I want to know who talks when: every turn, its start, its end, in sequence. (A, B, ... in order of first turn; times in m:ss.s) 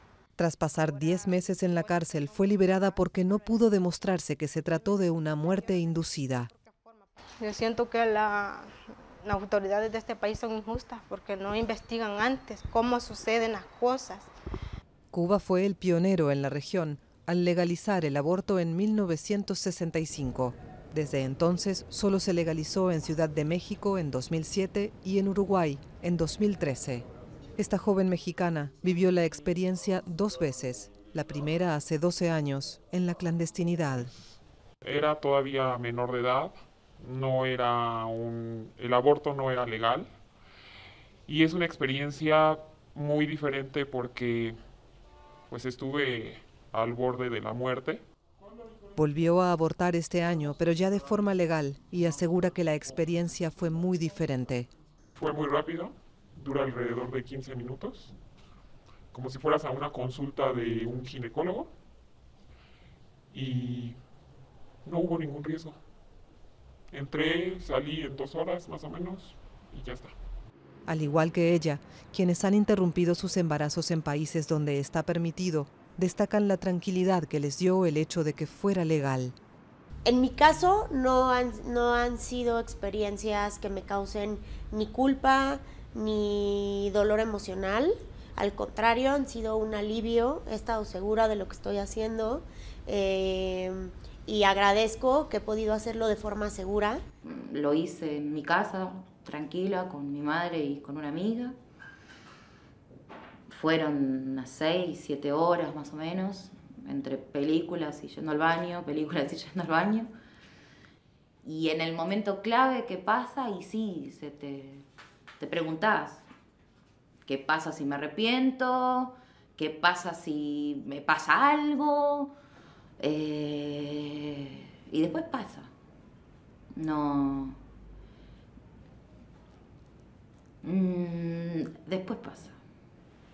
0:00.4-0:06.5 A
0:00.6-0:08.7 B
0:09.2-0:14.3 B
0:15.1-0:34.1 A
0:34.8-0:40.1 C
0:41.3-0:44.6 C
0:45.5-0:48.0 C
0:48.9-0:54.7 A
0:55.2-0:58.2 C
0:59.1-1:01.7 C
1:03.3-1:04.0 C
1:04.8-1:05.8 C
1:06.9-1:10.2 C
1:10.9-1:19.4 A
1:20.0-1:37.0 D
1:37.2-1:41.6 E
1:43.5-1:50.1 E
1:51.4-1:54.8 E
1:55.4-1:56.2 E
1:57.2-2:02.3 E
2:03.0-2:05.7 E
2:06.8-2:07.6 E
2:10.6-2:12.6 E